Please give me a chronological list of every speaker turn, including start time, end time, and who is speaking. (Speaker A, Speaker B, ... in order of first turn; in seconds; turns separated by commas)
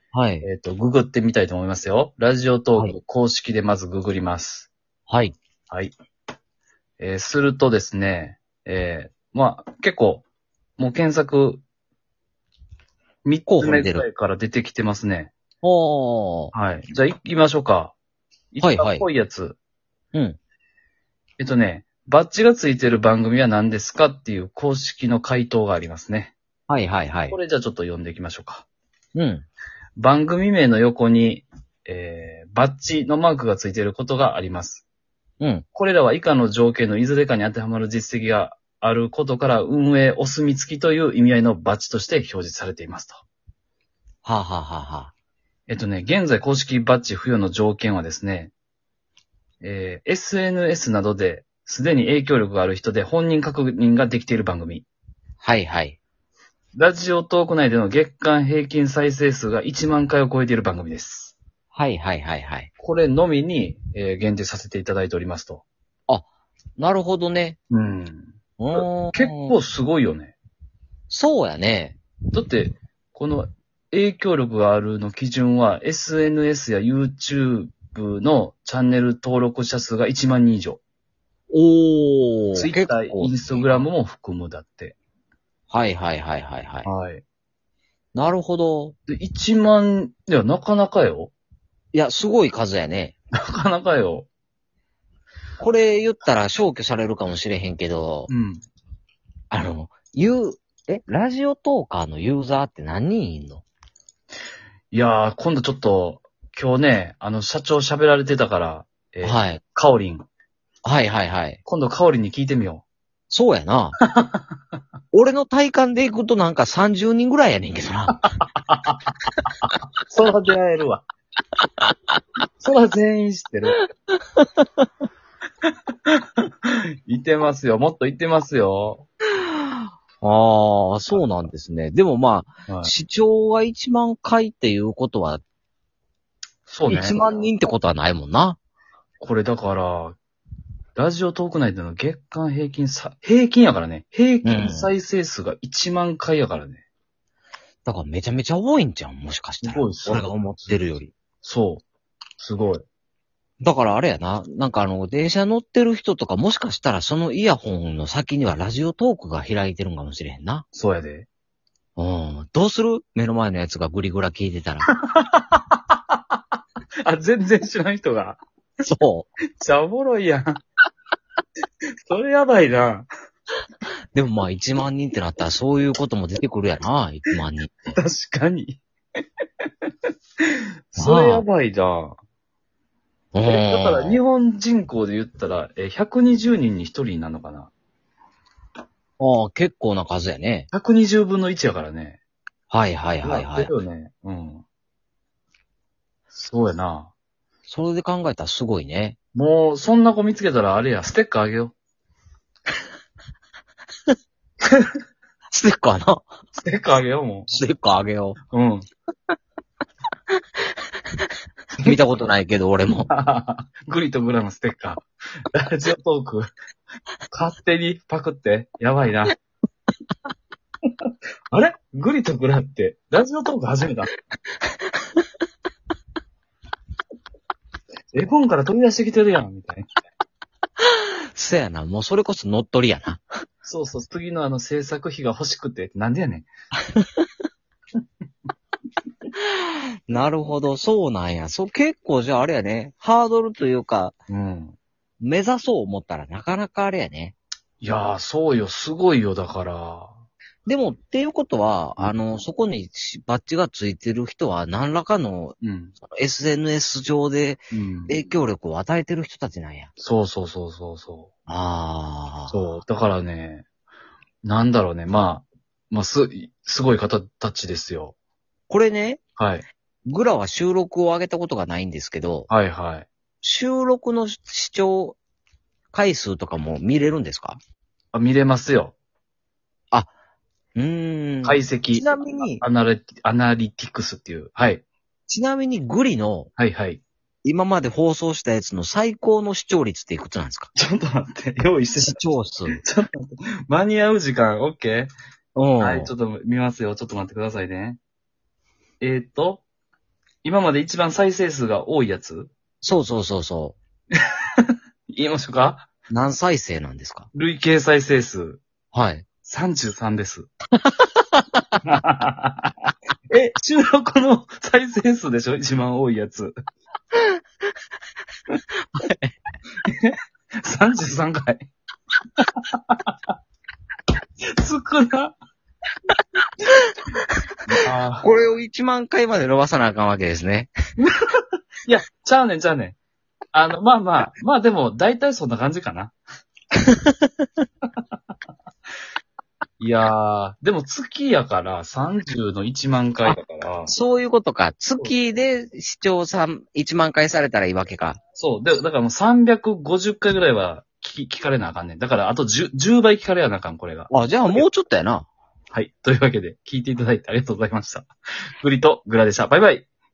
Speaker A: 0.1-0.5, Speaker B: 0.4-4.7, Speaker A: 5.1-5.3, Speaker B: 7.0-10.2, Speaker B: 10.8-11.6, Speaker B: 13.2-15.3, Speaker A: 13.5-14.1, Speaker A: 15.6-16.5, Speaker B: 16.5-17.9, Speaker B: 18.5-19.6, Speaker A: 18.6-19.1, Speaker B: 21.4-26.3, Speaker A: 26.7-27.4, Speaker B: 27.3-28.6, Speaker A: 29.1-29.4, Speaker B: 29.9-34.8, Speaker A: 35.4-35.6, Speaker B: 35.8-43.2, Speaker A: 44.2-45.1, Speaker B: 45.7-48.5, Speaker B: 49.6-54.9, Speaker A: 55.4-56.0, Speaker B: 56.8-61.3, Speaker A: 61.7-62.7, Speaker B: 62.8-65.6, Speaker A: 66.8-67.6, Speaker B: 67.7-70.4, Speaker A: 68.6-69.5, Speaker A: 71.1-72.0, Speaker B: 72.3-80.8, Speaker A: 81.5-83.8, Speaker B: 82.5-85.0, Speaker A: 85.7-86.9, Speaker B: 86.8-87.2, Speaker A: 88.1-88.9, Speaker B: 89.1-91.3, Speaker A: 91.9-93.1, Speaker B: 93.3-94.3, Speaker A: 95.6-98.3, Speaker B: 98.3-98.6, Speaker A: 99.5-103.6, Speaker B: 104.9-110.2, Speaker A: 109.2-109.6, Speaker A: 110.8-111.6, Speaker B: 111.6-112.8, Speaker A: 113.3-114.0, Speaker B: 114.1-114.4, Speaker A: 115.1-118.2, Speaker B: 118.6-119.0, Speaker B: 119.6-121.0, Speaker B: 122.6-123.8, Speaker B: 127.1-129.1, Speaker A: 129.8-135.4, Speaker B: 132.7-132.9, Speaker B: 136.7-137.2, Speaker A: 136.9-138.6, Speaker B: 139.2-140.2, Speaker B: 140.9-146.8, Speaker A: 144.4-144.9, Speaker A: 147.9-151.1, Speaker B: 149.6-150.3, Speaker B: 151.4-151.8, Speaker B: 152.4-152.8, Speaker A: 153.6-160.7, Speaker B: 160.7-161.3, Speaker A: 162.0-164.8, Speaker B: 165.1-165.8, Speaker B: 167.1-168.4, Speaker A: 168.8-169.3, Speaker B: 169.6-170.6, Speaker B: 172.1-173.1, Speaker A: 174.1-177.7, Speaker B: 177.9-178.8, Speaker B: 180.4-182.2, Speaker A: 181.0-181.4, Speaker A: 183.3-184.2, Speaker B: 183.4-187.7, Speaker A: 189.2-190.7, Speaker B: 190.7-192.2, Speaker A: 192.7-193.7, Speaker B: 193.2-194.6, Speaker B: 196.3-197.1, Speaker A: 197.7-199.2, Speaker B: 199.3-201.7, Speaker A: 205.5-206.3, Speaker B: 206.6-207.5, Speaker A: 207.5-208.4, Speaker B: 208.5-208.8, Speaker A: 211.8-213.1, Speaker B: 213.1-216.5, Speaker B: 217.3-219.3, Speaker B: 221.5-224.1, Speaker B: 228.1-229.9, Speaker A: 231.3-233.2, Speaker B: 233.7-236.5, Speaker A: 236.9-237.2, Speaker A: 240.1-244.2, Speaker B: 244.3-244.8, Speaker A: 245.2-247.3, Speaker B: 247.8-250.1, Speaker A: 250.7-255.6, Speaker B: 255.6-255.9, Speaker A: 256.1-259.9, Speaker B: 257.7-258.2, Speaker B: 260.0-261.3, Speaker A: 261.5-262.6, Speaker B: 262.5-263.6, Speaker B: 264.4-268.1, Speaker A: 268.7-269.2, Speaker B: 269.4-269.6, Speaker A: 270.1-272.5, Speaker B: 272.5-273.1, Speaker A: 273.4-275.2, Speaker A: 275.9-277.6, Speaker B: 278.1-278.9, Speaker A: 280.7-282.6, Speaker B: 281.4-284.8, Speaker A: 285.3-286.5, Speaker B: 286.6-287.0, Speaker A: 287.4-290.7, Speaker B: 290.7-295.1, Speaker A: 292.0-292.8, Speaker A: 295.6-296.1, Speaker B: 295.8-298.0, Speaker B: 299.0-299.6, Speaker B: 300.4-302.5, Speaker A: 302.8-303.8, Speaker B: 304.6-305.9, Speaker A: 306.1-307.3, Speaker B: 307.3-308.6, Speaker A: 308.9-309.2, Speaker B: 309.4-310.5, Speaker B: 311.9-312.7, Speaker B: 313.3-316.5, Speaker A: 318.9-319.3, Speaker B: 320.0-321.7, Speaker B: 322.6-323.1, Speaker B: 324.6-325.3, Speaker B: 327.7-328.3, Speaker A: 328.2-330.7, Speaker B: 331.8-332.9, Speaker B: 333.5-336.1, Speaker B: 339.8-343.9, Speaker A: 343.9-348.2, Speaker B: 348.4-354.7, Speaker A: 354.1-355.2, Speaker B: 355.7-358.1, Speaker B: 358.6-359.9